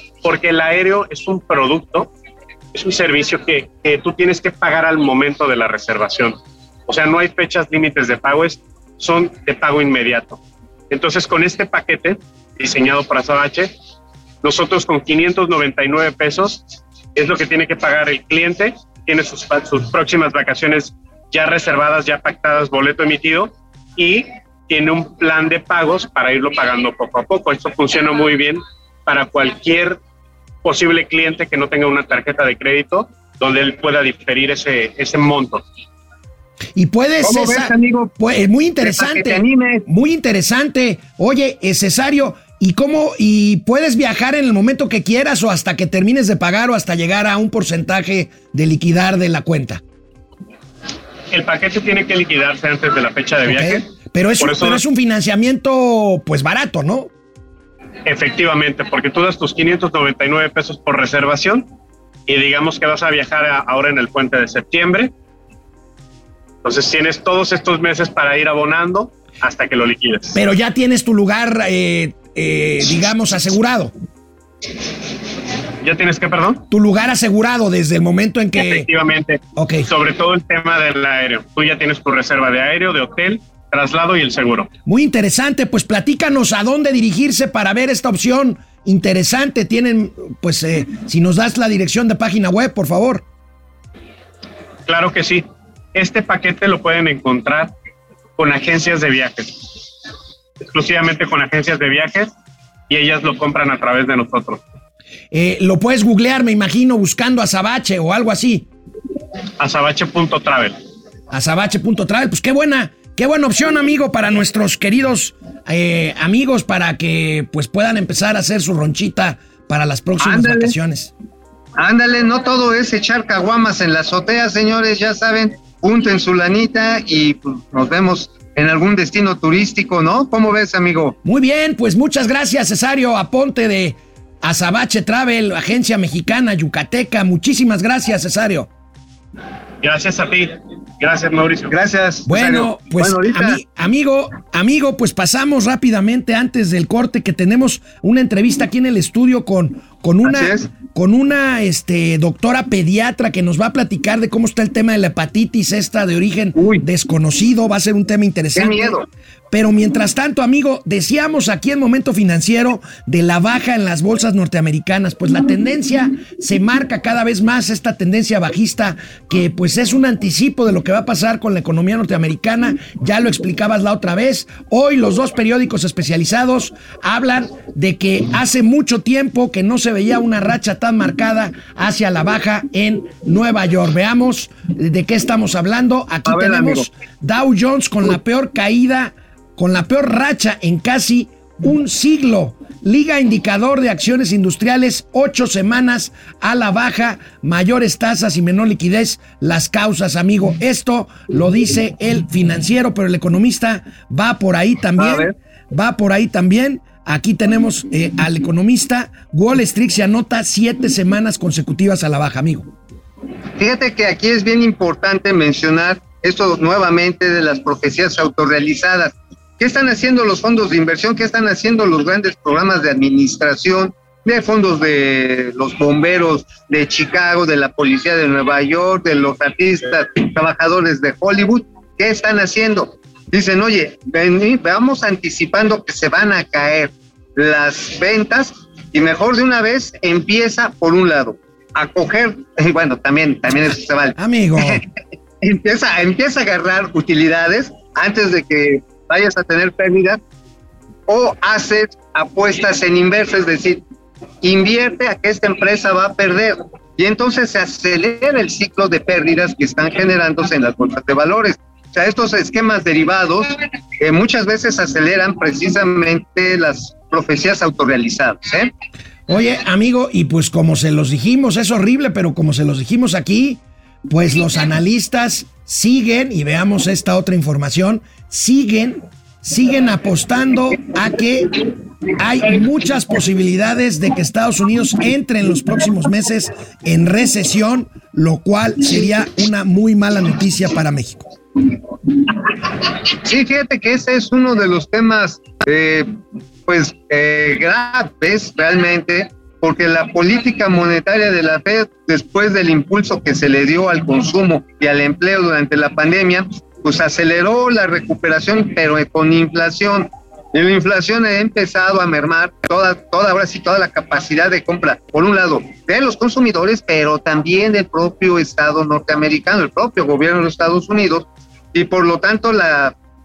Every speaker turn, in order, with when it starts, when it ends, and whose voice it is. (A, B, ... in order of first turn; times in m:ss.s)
0:00.2-0:02.1 A
0:02.7-0:10.4 A
0:10.9-0:13.7 A
0:14.4-0:16.6 A
0:17.1-0:30.0 A
0:30.6-0:35.6 A
0:36.8-0:49.8 B
0:37.2-0:38.1 C
0:38.8-0:39.9 C
0:51.3-0:53.9 A
0:53.4-0:57.1 B
0:54.4-0:54.8 A
0:58.1-1:01.7 A
1:02.3-1:05.1 A
1:06.6-1:10.4 A
1:10.3-1:13.9 B
1:15.8-1:16.6 A
1:16.7-1:18.9 B
1:18.6-1:24.7 A
1:19.6-1:19.9 B
1:24.9-1:33.2 B
1:34.9-1:37.7 A
1:38.4-1:39.7 A
1:40.7-1:42.3 A
1:42.9-1:44.6 A
1:45.3-1:48.7 B
1:49.6-1:50.8 A
1:51.3-2:01.1 B
2:00.2-2:00.7 C
2:01.8-2:11.2 C
2:11.2-2:18.7 B
2:19.8-2:21.7 A
2:21.7-2:23.6 C
2:22.3-2:39.0 B
2:30.2-2:30.7 C
2:36.6-2:36.8 C
2:38.6-2:39.1 C
2:39.5-3:32.7 B
3:06.3-3:06.9 C
3:25.0-3:25.3 C
3:33.6-4:04.8 C
4:04.2-4:04.8 B
4:05.4-4:10.2 C
4:11.1-4:13.8 C
4:14.4-4:28.7 C
4:29.3-4:41.6 B
4:42.2-4:51.3 B
4:53.2-4:56.1 C
4:56.7-5:22.9 C